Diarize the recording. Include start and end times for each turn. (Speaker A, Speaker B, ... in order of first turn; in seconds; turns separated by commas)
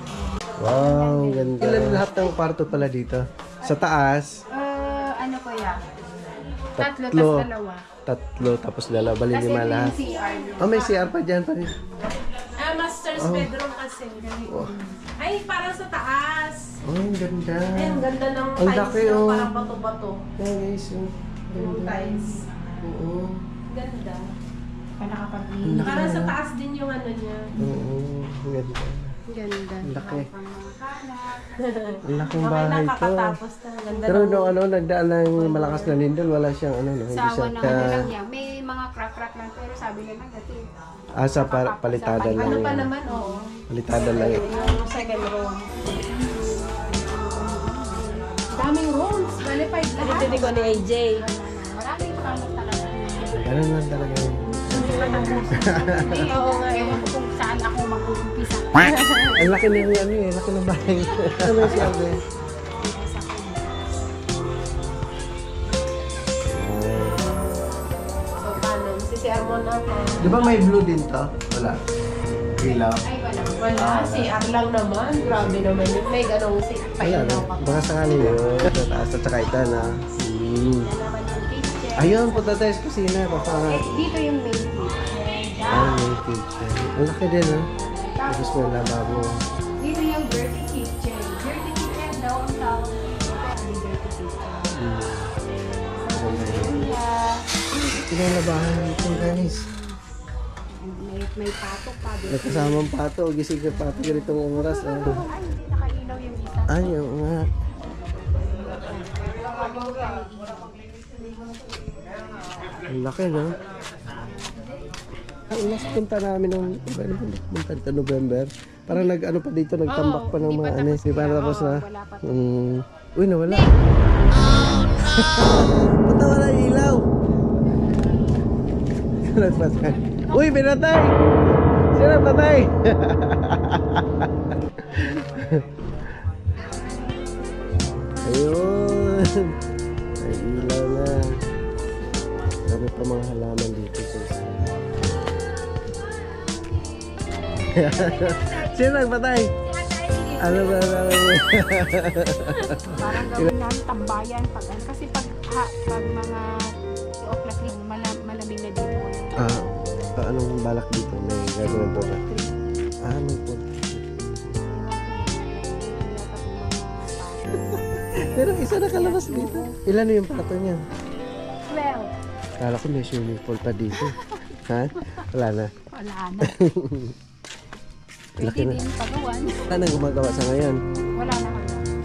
Speaker A: 0.6-4.4, Speaker B: 0.6-2.2, Speaker B: 4.5-5.8, Speaker A: 6.8-7.5, Speaker B: 6.8-7.9, Speaker A: 8.1-10.0, Speaker B: 9.3-11.0, Speaker C: 10.0-10.6, Speaker A: 10.6-11.8, Speaker C: 12.6-14.4, Speaker A: 13.2-13.5, Speaker B: 14.2-15.0, Speaker A: 14.5-14.8, Speaker C: 15.2-16.6, Speaker A: 16.9-18.1, Speaker C: 17.8-20.2, Speaker A: 18.6-19.5, Speaker A: 20.4-22.0, Speaker C: 21.5-22.5, Speaker B: 22.0-22.8, Speaker A: 22.8-23.4, Speaker C: 23.7-24.3, Speaker B: 25.0-26.2, Speaker A: 25.6-26.3, Speaker C: 25.8-27.5, Speaker A: 27.6-29.1, Speaker B: 29.3-32.2, Speaker A: 29.8-30.3, Speaker C: 31.6-34.5, Speaker A: 32.0-33.4, Speaker A: 34.1-38.1, Speaker C: 35.4-36.0, Speaker B: 37.1-40.6, Speaker A: 41.2-42.9, Speaker B: 41.4-43.6, Speaker C: 42.4-43.3, Speaker A: 43.7-44.5, Speaker C: 44.0-45.7, Speaker B: 44.1-45.3, Speaker B: 45.8-48.3, Speaker C: 48.5-51.2, Speaker B: 49.4-53.5, Speaker A: 53.3-56.3, Speaker B: 54.6-59.3, Speaker C: 54.7-57.1, Speaker A: 59.4-62.2, Speaker B: 61.6-62.1, Speaker B: 62.8-64.1, Speaker A: 66.5-67.3, Speaker C: 68.4-70.7, Speaker A: 70.2-71.8, Speaker A: 72.6-73.0, Speaker B: 73.0-74.0, Speaker C: 73.6-78.3, Speaker A: 73.8-74.4, Speaker A: 75.2-75.9, Speaker A: 77.0-80.9, Speaker B: 80.8-82.6, Speaker A: 82.0-83.9, Speaker B: 83.7-86.1, Speaker A: 85.7-87.7, Speaker B: 87.8-89.0, Speaker A: 88.3-89.4, Speaker B: 89.8-94.8, Speaker A: 94.8-95.3, Speaker B: 96.0-97.5, Speaker A: 96.2-96.9, Speaker A: 98.1-99.6, Speaker B: 99.1-99.9, Speaker B: 100.7-102.9, Speaker A: 102.3-105.2, Speaker B: 103.8-107.0, Speaker A: 106.7-107.5, Speaker B: 108.5-111.8, Speaker A: 112.9-113.6, Speaker A: 115.5-123.8, Speaker B: 119.9-122.4, Speaker A: 124.9-127.1, Speaker A: 129.2-134.3, Speaker B: 129.2-130.5, Speaker A: 134.9-135.7, Speaker A: 138.3-139.6, Speaker A: 140.2-141.3, Speaker A: 142.7-144.6, Speaker A: 147.7-149.5, Speaker B: 147.8-148.8, Speaker B: 149.7-150.9, Speaker A: 150.4-153.5, Speaker B: 152.9-159.5, Speaker A: 159.4-162.2, Speaker B: 161.8-162.5, Speaker A: 163.1-164.6, Speaker B: 164.7-169.8, Speaker A: 168.3-170.8, Speaker B: 171.7-172.1, Speaker A: 172.6-174.2, Speaker B: 174.0-174.4, Speaker A: 174.7-175.7, Speaker B: 175.9-176.5, Speaker A: 176.4-177.2, Speaker A: 178.4-178.8, Speaker B: 178.4-179.8, Speaker A: 179.7-180.8, Speaker B: 181.0-181.9